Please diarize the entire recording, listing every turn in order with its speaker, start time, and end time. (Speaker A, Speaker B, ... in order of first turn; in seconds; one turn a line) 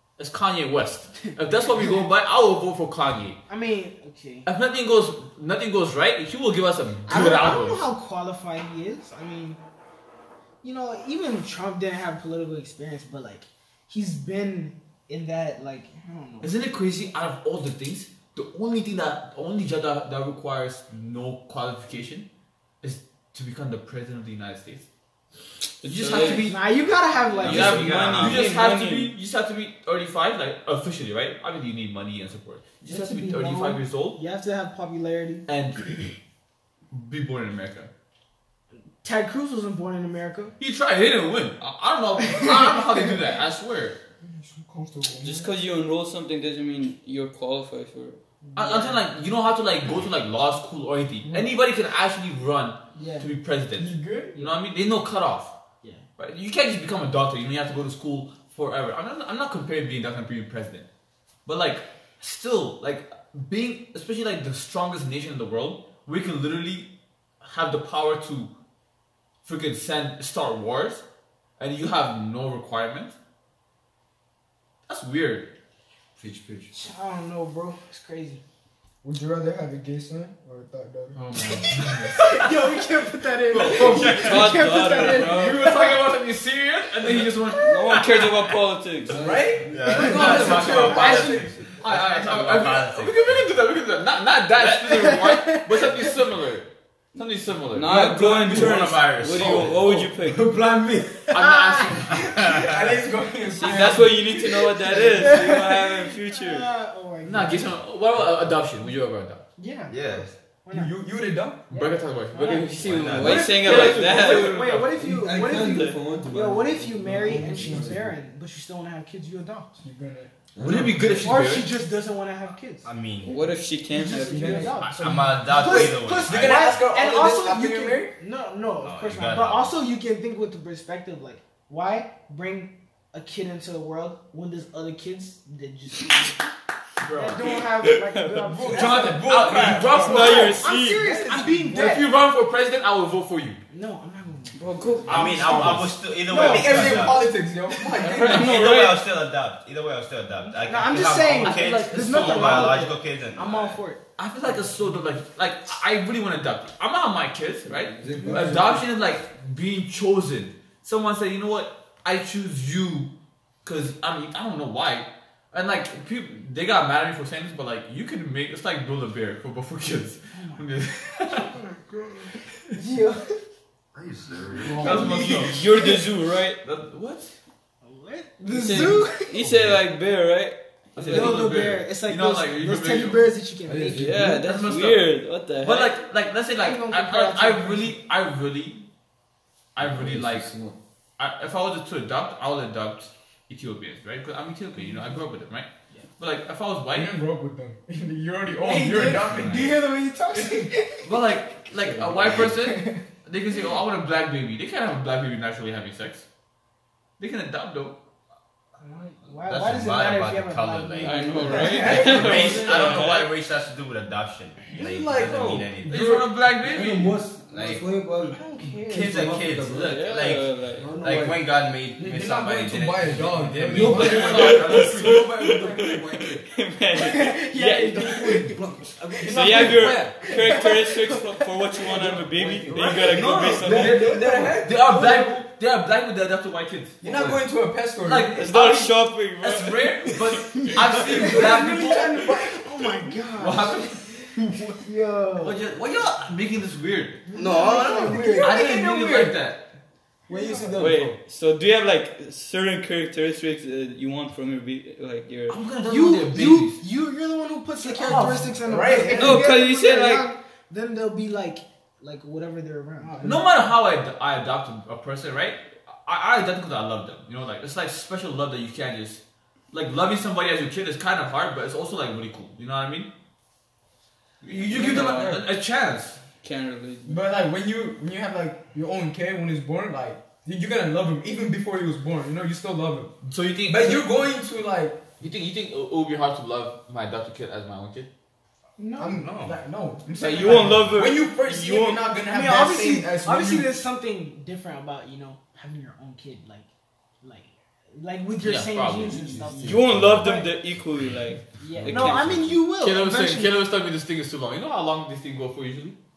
Speaker A: 0.2-3.4
Speaker B: 3.5-4.5
Speaker A: 4.5-7.8
Speaker B: 7.1-9.6
Speaker B: 10.6-16.5
Speaker A: 16.4-22.3
Speaker A: 22.8-24.9
Speaker C: 25.8-26.5
Speaker A: 25.8-26.6
Speaker B: 26.1-28.3
Speaker A: 27.4-34.2
Speaker C: 27.4-29.1
Speaker D: 27.4-28.4
Speaker B: 32.8-35.5
Speaker A: 35.5-36.1
Speaker A: 36.9-37.9
Speaker B: 39.0-40.5
Speaker A: 40.6-44.0
Speaker B: 42.4-43.1
Speaker E: 44.2-45.5
Speaker C: 45.2-48.2
Speaker B: 48.4-49.0
Speaker A: 48.5-55.5
Speaker B: 52.9-53.3
Speaker E: 53.8-54.4
Speaker A: 56.2-60.9
Speaker A: 61.5-66.9
Speaker A: 67.4-68.5
Speaker A: 69.4-71.0
Speaker A: 71.6-73.2
Speaker A: 74.9-75.5
Speaker F: 76.2-76.7
Speaker B: 76.7-78.4
Speaker E: 79.0-81.2
Speaker A: 81.1-82.5
Speaker B: 81.4-86.0
Speaker A: 83.5-88.0
Speaker D: 83.7-84.6
Speaker C: 83.7-85.7
Speaker B: 87.5-88.0
Speaker C: 87.6-89.1
Speaker F: 89.1-91.0
Speaker E: 89.1-91.5
Speaker D: 89.6-93.5
Speaker B: 89.8-91.5
Speaker A: 90.3-97.9
Speaker B: 94.6-96.1
Speaker C: 97.7-100.5
Speaker F: 97.9-98.7
Speaker D: 97.9-100.0
Speaker F: 99.4-101.3
Speaker A: 101.3-102.4
Speaker B: 101.3-102.0
Speaker D: 102.1-102.9
Speaker E: 102.3-105.5
Speaker C: 103.5-106.7
Speaker B: 105.1-107.7
Speaker A: 107.2-109.4
Speaker B: 109.6-110.9
Speaker D: 109.9-110.3
Speaker E: 110.7-111.6
Speaker A: 111.7-114.9
Speaker B: 111.7-119.8
Speaker D: 112.8-113.8
Speaker C: 113.0-114.7
Speaker F: 114.8-118.1
Speaker C: 115.6-116.0
Speaker E: 117.0-118.1
Speaker E: 119.8-120.3
Speaker F: 120.5-121.3
Speaker A: 120.6-121.7
Speaker B: 121.2-122.9
Speaker D: 122.8-123.4
Speaker C: 123.2-124.7
Speaker B: 123.9-136.3
Speaker E: 124.1-128.1
Speaker D: 124.9-126.7
Speaker D: 128.8-129.7
Speaker A: 137.0-137.6
Speaker B: 137.1-142.1
Speaker C: 137.8-138.5
Speaker E: 138.5-141.9
Speaker A: 138.7-140.6
Speaker C: 139.8-141.1
Speaker A: 141.6-143.6
Speaker B: 143.7-144.6
Speaker C: 144.6-145.7
Speaker A: 145.1-145.9
Speaker D: 145.1-147.3
Speaker B: 146.3-147.1
Speaker E: 146.3-148.5
Speaker C: 148.0-149.0
Speaker D: 148.2-153.8
Speaker B: 150.5-154.0
Speaker A: 151.4-152.8
Speaker A: 154.2-163.1
Speaker F: 157.7-158.8
Speaker E: 158.1-158.4
Speaker A: 163.6-171.5
Speaker B: 170.3-170.7
Speaker E: 171.3-172.3
Speaker B: 172.7-173.4
Speaker D: 173.9-174.7
Speaker F: 174.3-174.9
Speaker E: 174.6-175.5
Speaker A: 174.7-175.6
Speaker B: 174.8-175.9
Speaker C: 175.3-176.6
Speaker A: 176.6-177.3
Speaker B: 177.8-179.4
Speaker C: 178.5-181.4
Speaker A: 180.9-183.3
Speaker B: 181.1-184.2
Speaker F: 183.7-184.6
Speaker C: 183.9-186.0
Speaker A: 184.2-185.0
Speaker A: 185.6-188.8
Speaker B: 186.6-188.0
Speaker A: 189.7-190.5
Speaker F: 189.8-190.8
Speaker A: 191.2-197.1
Speaker E: 196.9-199.8
Speaker B: 198.6-201.1
Speaker A: 198.9-199.7
Speaker A: 201.0-206.2
Speaker F: 201.7-202.3
Speaker B: 202.3-203.0
Speaker A: 207.2-208.0
Speaker B: 208.8-212.1
Speaker D: 209.4-216.2
Speaker C: 211.0-213.1
Speaker E: 211.4-212.6
Speaker A: 211.9-213.3
Speaker E: 214.7-215.9
Speaker F: 215.2-215.7
Speaker A: 215.8-217.2
Speaker F: 216.6-222.2
Speaker D: 217.5-217.9
Speaker B: 218.3-219.2
Speaker D: 218.9-225.0
Speaker C: 219.8-220.9
Speaker E: 222.0-224.4
Speaker F: 223.5-226.4
Speaker A: 223.7-225.1
Speaker C: 224.2-228.1
Speaker B: 226.9-228.6
Speaker F: 227.9-230.3
Speaker B: 229.2-229.7
Speaker C: 229.2-234.1
Speaker B: 230.2-231.8
Speaker F: 231.8-234.8
Speaker A: 232.7-237.0
Speaker E: 233.6-235.4
Speaker F: 237.0-237.4
Speaker E: 237.0-238.4
Speaker A: 238.0-242.4
Speaker C: 238.3-239.8
Speaker E: 240.8-242.5
Speaker B: 241.2-244.0
Speaker A: 243.3-244.8
Speaker B: 244.8-245.6
Speaker A: 245.4-247.2
Speaker E: 247.3-248.6
Speaker B: 247.3-249.3
Speaker D: 247.3-248.4
Speaker A: 248.4-249.6
Speaker E: 250.3-250.9
Speaker F: 250.3-251.2
Speaker B: 250.3-250.6
Speaker C: 250.8-255.6
Speaker A: 255.5-256.8
Speaker B: 255.8-263.2
Speaker E: 257.9-259.5
Speaker A: 258.0-258.5
Speaker C: 259.2-260.3
Speaker E: 263.0-263.4
Speaker A: 263.2-273.1
Speaker A: 274.4-276.2
Speaker C: 274.7-275.4
Speaker E: 274.7-275.4
Speaker C: 276.4-277.2
Speaker E: 277.0-283.1
Speaker A: 283.2-284.1
Speaker E: 283.6-285.0
Speaker A: 285.2-288.1
Speaker B: 288.8-289.2
Speaker E: 289.0-293.7
Speaker D: 289.1-289.6
Speaker C: 290.2-292.0
Speaker B: 292.3-296.7
Speaker B: 297.2-300.5
Speaker A: 298.4-299.2
Speaker F: 299.1-299.9
Speaker C: 299.6-302.4
Speaker D: 299.9-300.2
Speaker B: 301.6-303.5
Speaker F: 301.8-302.6
Speaker A: 302.8-305.9